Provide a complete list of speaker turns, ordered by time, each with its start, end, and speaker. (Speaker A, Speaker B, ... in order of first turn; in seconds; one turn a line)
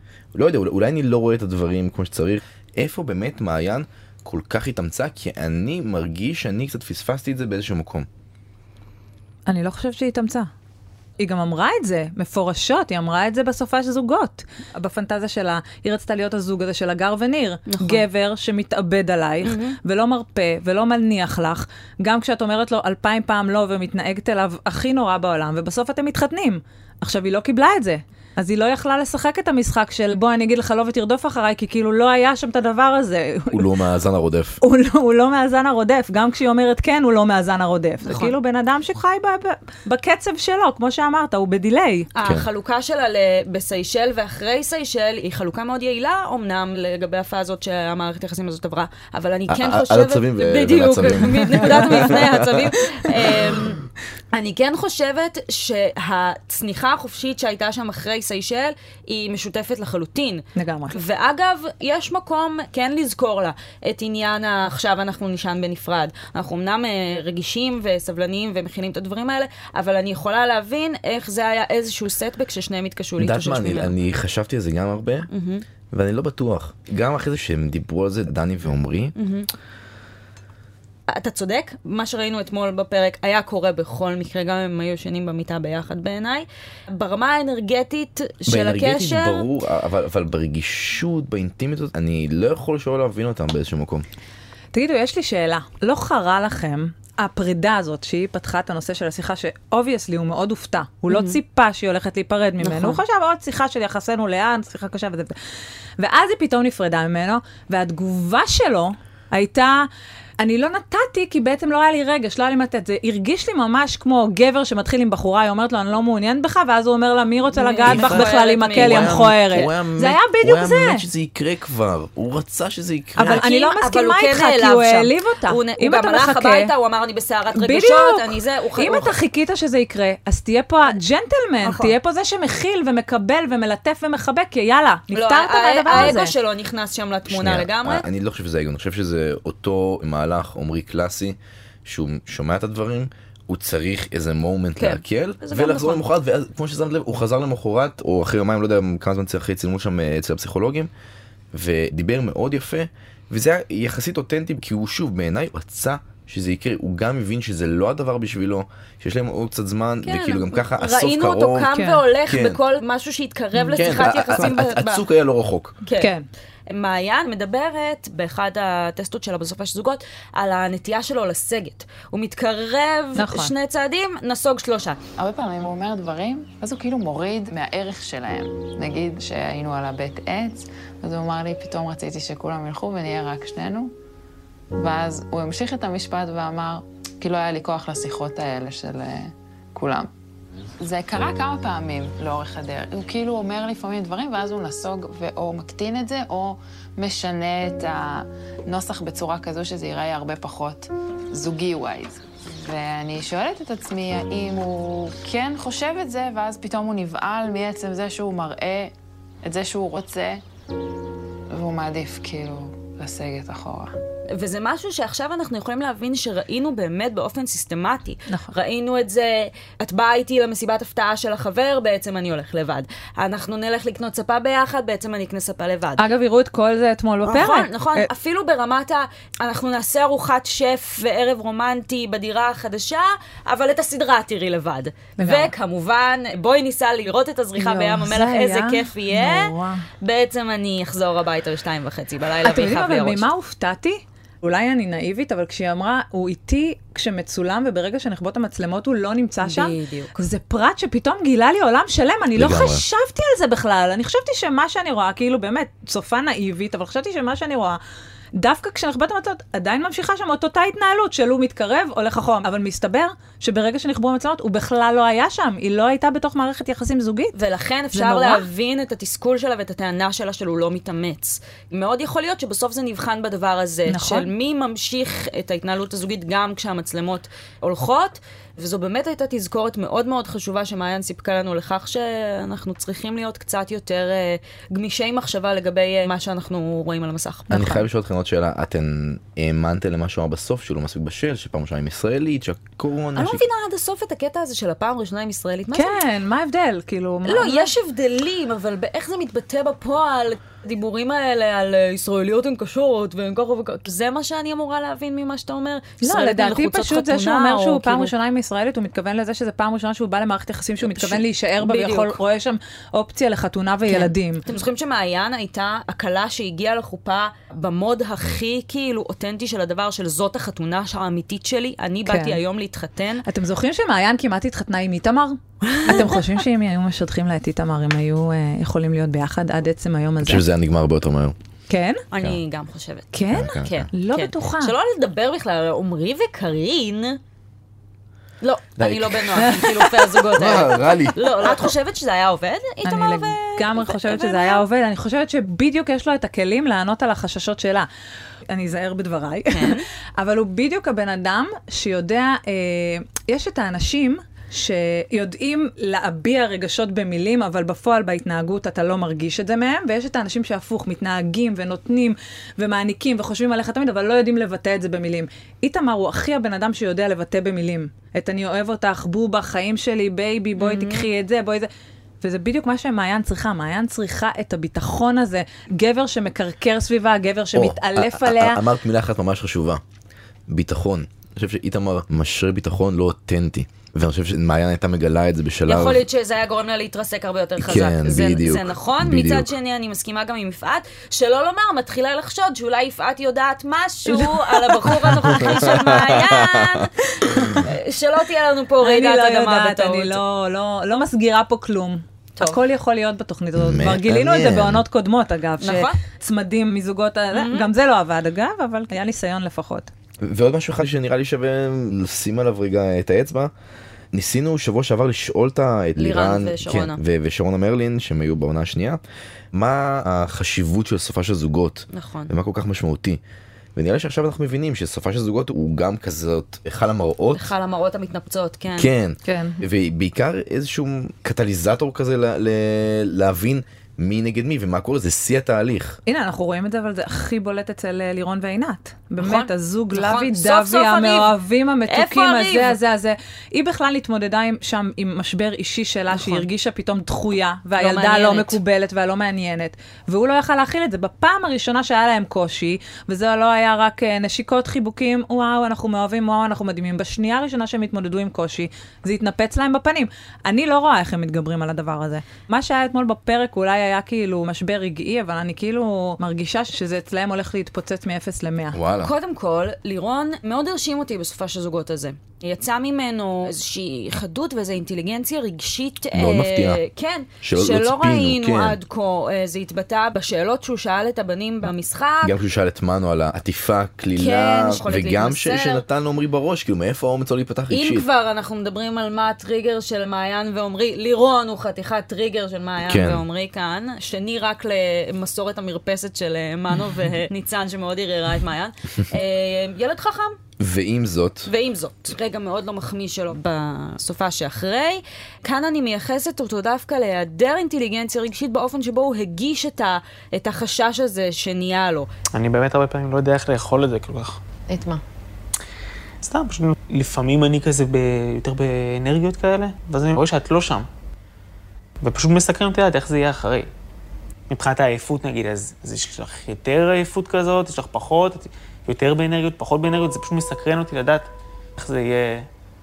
Speaker A: 0.3-8.1
Speaker B: 9.5-10.5
Speaker B: 11.2-33.7
Speaker C: 17.7-18.0
Speaker C: 19.4-19.8
Speaker A: 33.5-34.6
Speaker B: 34.6-42.1
Speaker C: 38.0-38.4
Speaker C: 42.1-53.8
Speaker A: 49.5-52.7
Speaker C: 54.3-73.9
Speaker B: 60.6-61.0
Speaker A: 73.2-75.3
Speaker C: 75.3-75.7
Speaker A: 75.9-79.1
Speaker C: 79.2-79.5
Speaker C: 81.1-89.5
Speaker A: 88.5-94.0
Speaker B: 94.7-105.4
Speaker C: 101.1-101.4
Speaker C: 102.6-103.0
Speaker B: 106.0-109.9
Speaker B: 110.4-121.0
Speaker C: 117.5-119.7
Speaker A: 117.9-123.5
Speaker B: 123.2-126.7
Speaker C: 123.2-129.2
Speaker B: 127.5-136.3
Speaker C: 131.6-132.0
Speaker C: 135.1-138.1
Speaker A: 137.3-150.9
Speaker C: 144.8-146.0
Speaker A: 151.5-162.6
Speaker C: 160.1-165.0
Speaker B: 161.7-162.0
Speaker B: 163.6-164.6
Speaker A: 163.8-165.8
Speaker C: 165.8-166.2
Speaker B: 166.0-166.3
Speaker C: 166.7-175.0
Speaker B: 173.2-173.5
Speaker D: 175.2-183.9
Speaker D: 184.7-190.1
Speaker D: 190.8-210.4
Speaker D: 211.5-213.9
Speaker C: 214.3-226.1
Speaker B: 226.0-228.1
Speaker C: 227.2-243.3
Speaker B: 235.2-235.5
Speaker B: 237.6-239.8
Speaker B: 242.4-257.8
Speaker C: 249.4-250.2
Speaker A: 252.3-252.8
Speaker B: 258.4-267.4
Speaker C: 267.4-287.5
Speaker B: 267.9-268.4
Speaker B: 273.9-274.3
Speaker B: 287.5-287.9
Speaker A: 287.5-293.5
Speaker C: 293.2-296.0
Speaker B: 295.7-297.7
Speaker C: 297.2-308.1
Speaker B: 306.0-314.4
Speaker C: 310.8-312.2
Speaker C: 313.9-323.2
Speaker B: 322.1-322.4
Speaker B: 323.3-330.4
Speaker C: 325.6-326.2
Speaker A: 330.2-331.4
Speaker B: 331.7-332.0
Speaker C: 332.1-333.1
Speaker B: 333.1-334.7
Speaker A: 333.3-333.9
Speaker C: 333.6-337.2
Speaker C: 338.4-344.6
Speaker A: 338.8-339.6
Speaker B: 339.4-340.0
Speaker A: 340.3-341.6
Speaker B: 342.9-347.9
Speaker B: 348.5-371.7
Speaker C: 349.5-349.9
Speaker C: 370.6-371.1
Speaker B: 372.2-378.6
Speaker A: 377.5-379.8
Speaker A: 380.5-386.0
Speaker C: 385.7-396.9
Speaker A: 387.6-389.5
Speaker B: 394.1-395.6
Speaker A: 395.4-396.9
Speaker B: 397.3-397.7
Speaker C: 397.6-400.2
Speaker B: 398.8-409.9
Speaker A: 403.6-404.8
Speaker C: 405.6-406.0
Speaker C: 407.3-407.7
Speaker A: 410.2-413.5
Speaker A: 414.1-419.0
Speaker C: 416.0-417.0
Speaker A: 419.5-423.2
Speaker C: 421.9-422.3
Speaker A: 423.8-427.5
Speaker C: 427.4-428.9
Speaker A: 428.7-436.0
Speaker B: 429.2-429.6
Speaker B: 436.1-468.8
Speaker C: 439.2-441.4
Speaker C: 441.9-442.8
Speaker C: 446.1-446.5
Speaker C: 447.8-448.6
Speaker A: 468.7-469.1
Speaker C: 469.0-482.4
Speaker A: 476.1-476.8
Speaker A: 477.4-478.8
Speaker A: 482.2-488.1
Speaker C: 484.2-485.9
Speaker C: 487.7-500.4
Speaker A: 492.9-493.2
Speaker A: 500.6-501.5
Speaker C: 501.5-512.1
Speaker E: 512.3-514.4
Speaker D: 514.7-515.0
Speaker E: 516.2-520.9
Speaker E: 522.0-523.7
Speaker E: 524.5-532.5